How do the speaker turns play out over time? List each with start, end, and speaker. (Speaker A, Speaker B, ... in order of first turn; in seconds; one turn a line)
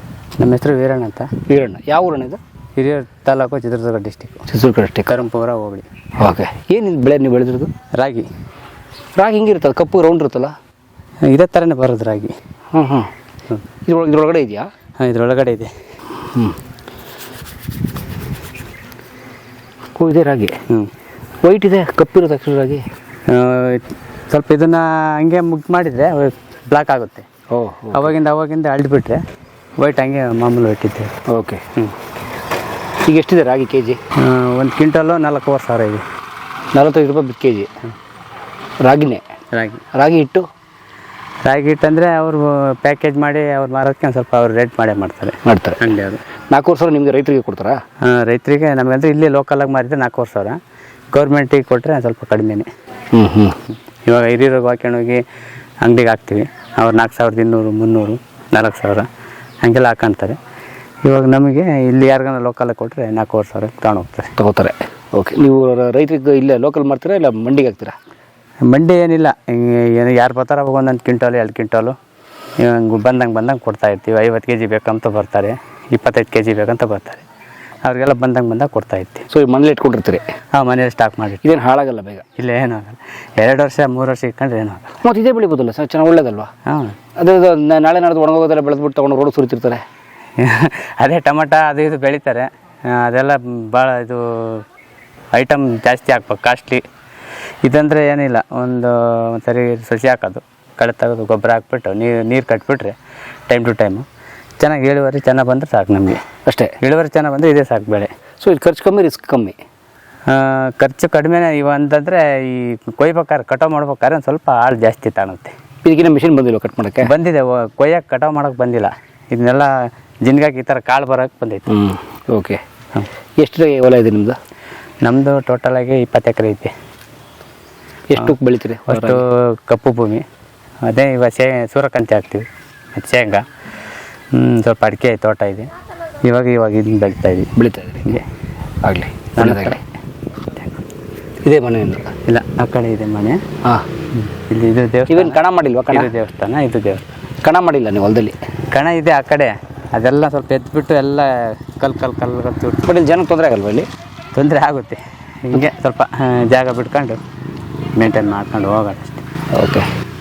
Speaker A: 0.4-1.3
Speaker B: 1.4-2.4
Speaker A: 2.8-4.4
Speaker B: 4.5-5.2
Speaker A: 5.1-5.8
Speaker B: 6.2-7.7
Speaker A: 7.9-8.3
Speaker B: 9.2-10.5
Speaker A: 11.2-12.3
Speaker B: 12.7-13.1
Speaker B: 13.8-14.7
Speaker A: 15.0-15.7
Speaker B: 16.2-16.6
Speaker B: 19.9-20.6
Speaker B: 21.4-22.8
Speaker A: 23.3-27.3
Speaker B: 27.5-28.1
Speaker A: 27.9-29.2
Speaker A: 29.8-31.1
Speaker B: 31.3-31.6
Speaker B: 33.0-34.0
Speaker A: 34.2-36.0
Speaker B: 36.7-37.7
Speaker B: 38.8-39.2
Speaker A: 39.5-39.8
Speaker B: 39.9-40.5
Speaker A: 41.4-46.2
Speaker B: 45.4-45.9
Speaker B: 46.5-47.8
Speaker A: 48.0-50.6
Speaker A: 51.1-52.7
Speaker B: 53.1-53.6
Speaker A: 54.0-55.2
Speaker A: 55.8-59.1
Speaker A: 59.6-60.4
Speaker A: 61.0-64.3
Speaker B: 64.4-67.9
Speaker A: 68.7-72.0
Speaker A: 72.6-77.2
Speaker A: 77.8-79.3
Speaker B: 79.3-80.2
Speaker A: 80.5-81.4
Speaker B: 81.4-82.2
Speaker A: 82.4-85.0
Speaker B: 85.0-86.5
Speaker A: 86.7-87.0
Speaker B: 87.1-89.8
Speaker A: 90.4-94.6
Speaker A: 95.3-96.8
Speaker A: 97.6-103.0
Speaker A: 103.5-104.1
Speaker A: 104.6-106.2
Speaker B: 106.5-106.8
Speaker A: 106.8-108.1
Speaker B: 108.4-109.5
Speaker A: 110.3-115.5
Speaker B: 115.8-117.1
Speaker A: 117.0-119.7
Speaker A: 120.2-121.7
Speaker B: 121.7-122.6
Speaker B: 123.4-124.4
Speaker A: 125.0-126.7
Speaker B: 128.1-129.2
Speaker A: 128.9-130.2
Speaker A: 130.8-133.4
Speaker A: 134.3-135.7
Speaker A: 136.2-137.5
Speaker B: 137.5-138.2
Speaker B: 138.8-139.8
Speaker A: 139.3-139.8
Speaker B: 141.4-142.2
Speaker A: 142.2-143.4
Speaker A: 144.1-145.4
Speaker B: 145.1-146.1
Speaker A: 145.9-147.1
Speaker B: 147.4-148.4
Speaker A: 148.7-152.9
Speaker B: 152.8-153.9
Speaker A: 154.3-157.2
Speaker A: 158.0-159.2
Speaker B: 159.5-159.9